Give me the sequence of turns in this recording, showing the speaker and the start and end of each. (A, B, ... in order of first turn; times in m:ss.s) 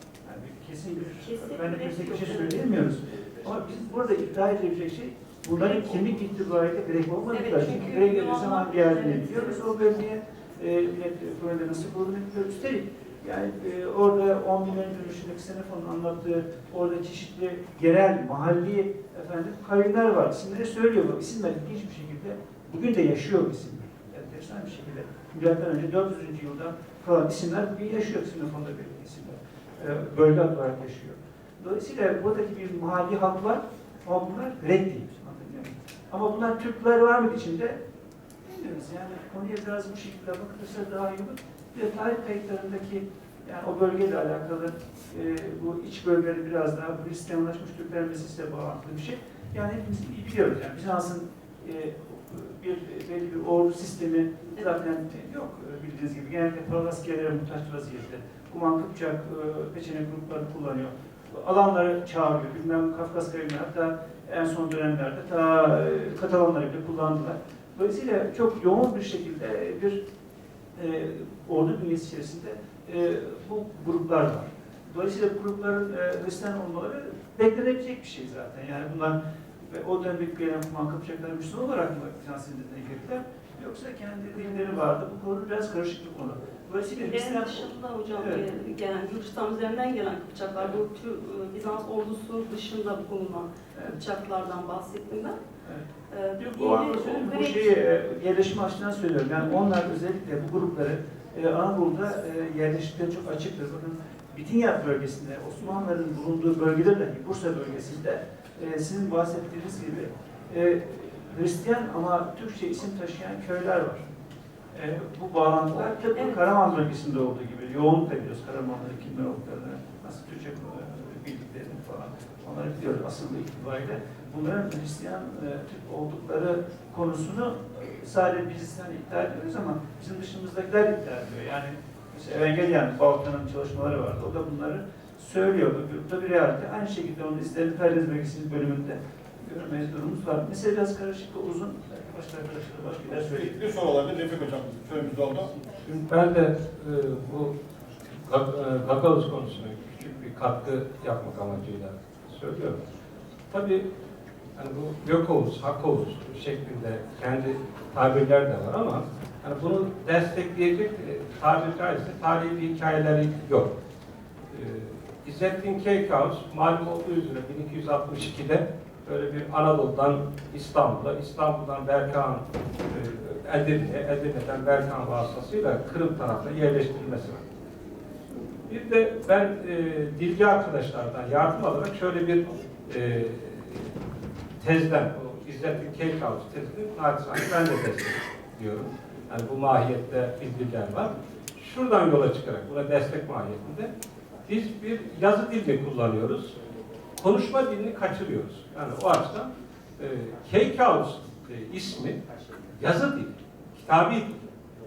0:00.2-0:37.8 A
0:01.2-0:02.7 B
0:07.3-0:09.7 B
0:38.4-1:10.0 A
1:10.8-1:28.4 A
1:27.0-1:35.4 B
1:35.6-1:54.1 A
1:36.1-1:37.7 B
1:54.7-2:23.6 A
1:56.2-1:56.4 B
2:23.1-2:25.5 C
2:25.8-2:27.6 D
2:28.2-2:32.8 D
2:33.5-2:33.9 D
2:34.6-2:43.7 D
2:44.5-2:57.4 D
2:58.7-3:03.9 D
3:04.6-3:13.9 D
3:14.5-3:16.6 D
3:17.2-3:22.2 D
3:22.8-3:24.4 D